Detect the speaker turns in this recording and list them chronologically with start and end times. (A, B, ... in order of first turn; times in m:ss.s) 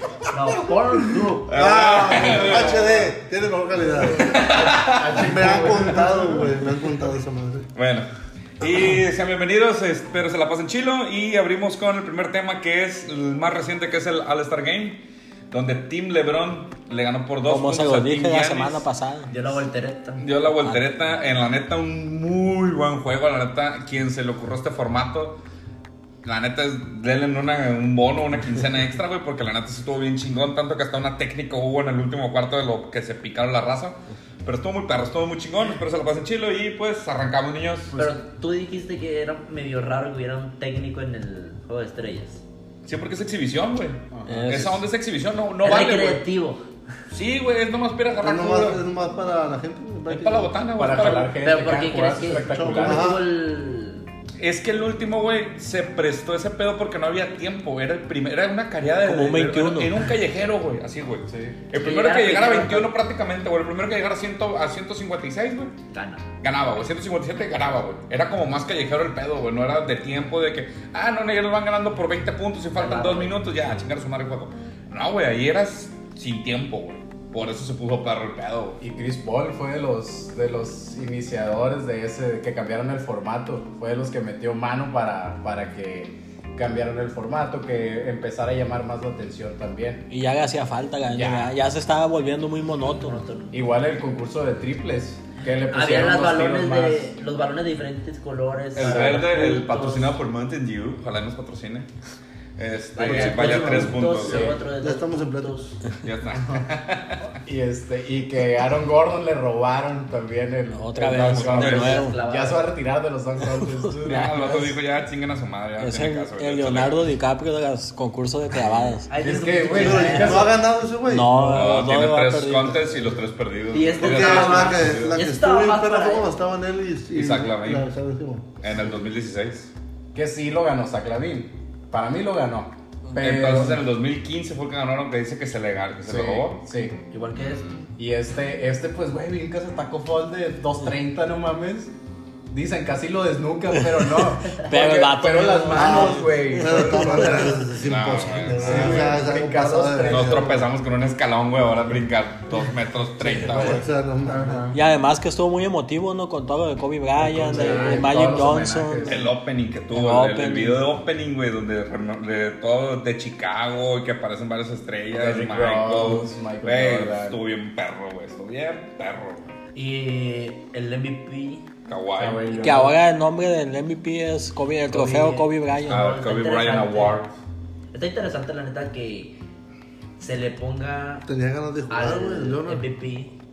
0:00.3-0:01.5 A
0:01.5-0:02.8 B
0:01.5-0:07.7 C
0:02.4-0:02.8 D
0:04.1-0:05.2 B
0:04.4-0:06.5 D
0:07.7-0:08.1 B
0:08.6-0:18.8 B
0:17.5-0:19.3 E
0:19.3-0:20.2 A
0:20.2-0:25.4 B
0:26.2-0:37.9 B
0:38.0-0:42.4 A
0:42.8-0:46.2 B
0:44.1-0:44.5 D
0:44.2-0:44.8 E
0:45.6-0:46.6 A
0:47.1-0:48.8 B
0:48.2-0:50.6 C
0:50.1-0:51.4 B
0:50.7-0:53.1 D
0:51.4-0:54.1 A
0:52.4-0:53.2 C
0:54.4-1:05.7 B
0:59.0-1:00.0 E
1:01.3-1:01.6 D
1:01.8-1:02.9 A
1:05.9-1:06.2 A
1:06.4-1:18.8 B
1:12.7-1:13.4 A
1:18.8-1:30.0 D
1:30.1-1:33.2 E
1:31.1-1:31.5 D
1:32.8-1:33.6 A
1:33.5-1:37.1 D
1:35.7-1:40.2 A
1:38.8-1:41.9 B
1:38.8-1:39.3 D
1:42.6-1:44.6 B
1:43.0-1:45.8 A
1:43.0-1:44.6 D
1:44.8-1:45.7 C
1:46.0-1:47.3 B
1:47.4-1:54.7 D
1:50.7-1:52.2 E
1:51.2-1:52.0 B
1:51.5-1:52.7 A
1:54.0-1:57.0 B
1:55.8-1:59.1 E
1:59.1-2:00.6 A
1:59.1-2:00.5 D
1:59.7-2:00.4 E
1:59.8-2:01.5 C
2:01.1-2:02.8 E
2:01.3-2:01.8 D
2:01.5-2:05.2 B
2:03.7-2:06.3 A
2:04.0-2:08.6 C
2:07.1-2:07.9 B
2:08.6-2:09.7 B
2:10.1-2:13.8 D
2:13.2-2:16.6 B
2:16.0-2:17.0 D
2:17.1-2:17.6 A
2:18.0-2:21.9 D
2:22.5-2:27.6 D
2:23.7-2:27.5 E
2:25.7-2:30.6 C
2:27.8-2:29.2 B
2:28.4-2:30.7 D
2:30.0-2:33.8 B
2:33.2-2:34.6 C
2:33.2-2:34.8 D
2:34.7-2:39.3 E
2:37.2-2:39.3 D
2:37.6-2:38.1 A
2:39.0-2:49.5 B
2:39.9-2:40.8 E
2:45.1-2:47.4 D
2:49.7-2:51.6 A
2:51.9-2:52.6 B
2:52.2-2:53.0 D
2:52.5-2:56.0 E
2:54.9-2:57.2 A
2:55.9-2:57.3 B
2:57.9-2:59.4 A
3:00.2-3:01.2 A
3:01.2-3:02.8 C
3:01.9-3:03.3 A